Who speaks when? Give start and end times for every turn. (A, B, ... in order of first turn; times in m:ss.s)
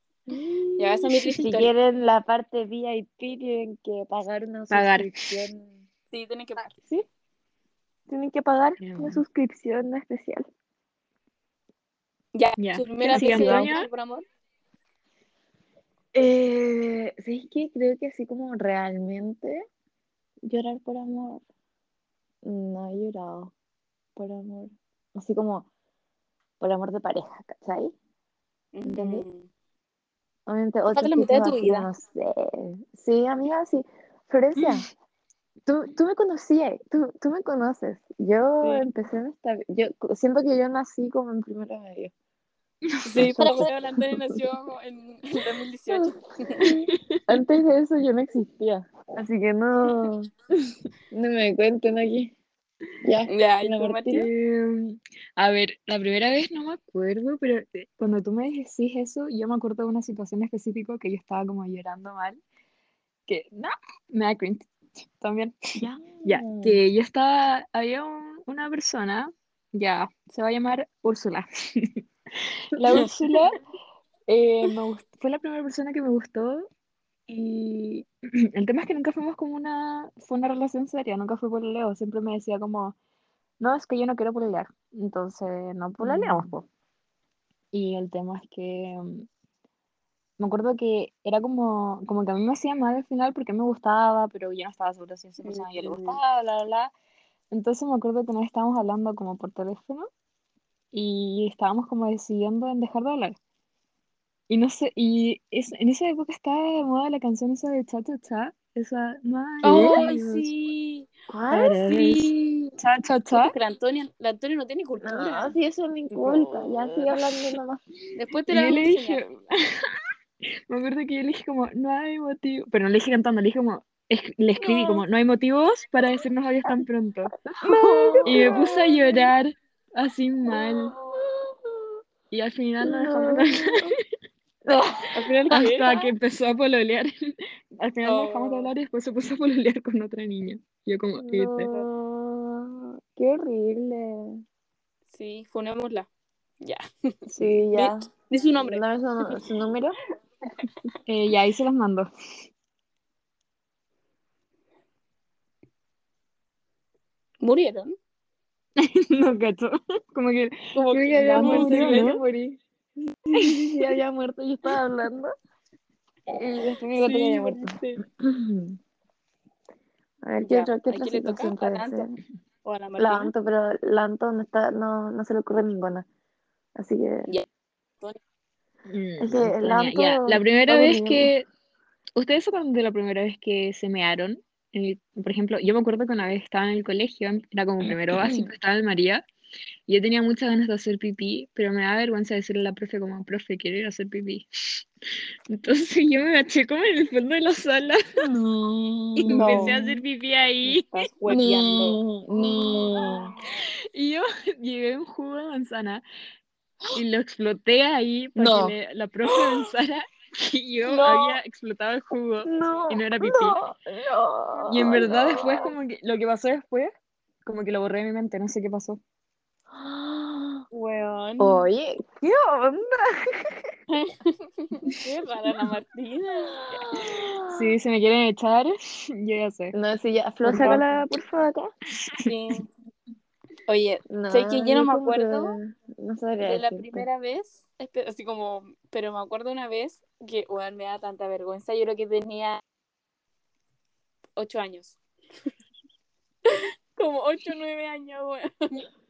0:00.3-0:05.8 A
0:00.8-0:01.7 B
0:04.7-0:05.5 C
0:06.1-0:06.7 B
0:08.1-0:10.4 A
0:08.8-0:09.2 C
0:12.3-0:14.2 B
0:12.6-0:13.9 C
0:13.0-0:13.8 A
0:16.1-0:19.6 A
0:20.4-0:21.4 A
0:22.4-0:23.5 A
0:24.2-0:25.7 A
0:26.6-0:27.9 A
0:28.7-0:29.4 B
0:28.8-0:29.2 A
0:30.4-0:34.9 A
0:30.9-0:31.9 B
0:35.6-0:42.1 A
0:42.9-0:43.6 C
0:43.0-0:46.7 B
0:43.2-0:43.7 A
0:45.9-0:50.3 A
0:51.1-0:52.3 A
0:53.0-0:54.3 A
0:53.3-0:54.3 B
0:54.1-1:02.4 C
1:03.3-1:05.5 C
1:05.8-1:06.8 A
1:06.2-1:12.0 C
1:12.7-1:13.6 C
1:14.3-1:16.7 C
1:17.3-1:22.9 C
1:23.6-1:26.6 C
1:26.0-1:26.5 A
1:27.7-1:29.3 C
1:30.4-1:36.9 C
1:35.4-1:36.2 B
1:37.5-1:40.1 C
1:40.9-1:43.4 C
1:44.5-1:50.5 C
1:49.6-1:51.1 B
1:49.6-1:50.1 A
1:51.3-1:52.1 A
1:51.5-1:53.5 C
1:51.8-1:52.3 B
1:53.3-1:55.5 B
1:55.0-1:57.8 A
1:56.1-1:57.2 C
1:58.1-1:59.2 B
1:58.5-2:07.4 C
2:07.6-2:09.3 A
2:07.7-2:08.5 B
2:08.2-2:10.9 C
2:10.6-2:11.9 A
2:12.3-2:13.9 C
2:12.8-2:13.9 A
2:14.6-2:15.2 A
2:15.1-2:16.0 B
2:15.5-2:21.7 C
2:18.0-2:18.7 B
2:21.2-2:24.4 A
2:25.1-2:26.1 B
2:27.3-2:28.1 A
2:27.7-2:29.4 B
2:28.6-2:30.0 A
2:31.1-2:32.1 C
2:37.4-2:37.9 B
2:38.8-2:42.4 C
2:40.7-2:42.2 B
2:41.1-2:42.4 A
2:43.2-2:45.3 A
2:43.4-2:43.9 C
2:46.3-2:48.8 A
2:47.0-2:48.0 B
2:50.2-2:52.1 A
2:50.4-2:52.1 B
2:52.6-2:53.3 B
2:53.0-2:56.0 A
2:56.8-2:57.3 A
2:58.8-3:01.4 C
2:59.2-3:01.3 A
3:02.2-3:09.2 C
3:08.2-3:08.5 A
3:09.9-3:14.8 C
3:15.5-3:18.2 C
3:18.2-3:20.0 A
3:19.2-3:20.9 C
3:19.3-3:19.8 B
3:20.6-3:22.0 B
3:21.3-3:23.3 A
3:22.3-3:26.0 C
3:26.9-3:33.6 C
3:28.4-3:28.7 A
3:30.8-3:31.4 B
3:32.4-3:35.7 A
3:34.7-3:36.9 C
3:37.4-3:39.0 C
3:39.7-3:40.6 A
3:40.7-3:41.6 B
3:41.4-3:43.6 A
3:43.9-3:46.8 B
3:46.5-3:47.7 A
3:47.5-3:49.7 C
3:49.7-3:51.7 A
3:50.4-3:50.8 C
3:50.5-3:50.8 B
3:52.2-3:52.7 B
3:53.7-3:55.6 B
3:54.1-3:57.0 A
3:56.4-4:02.6 B
4:04.4-4:05.0 B
4:06.4-4:08.8 B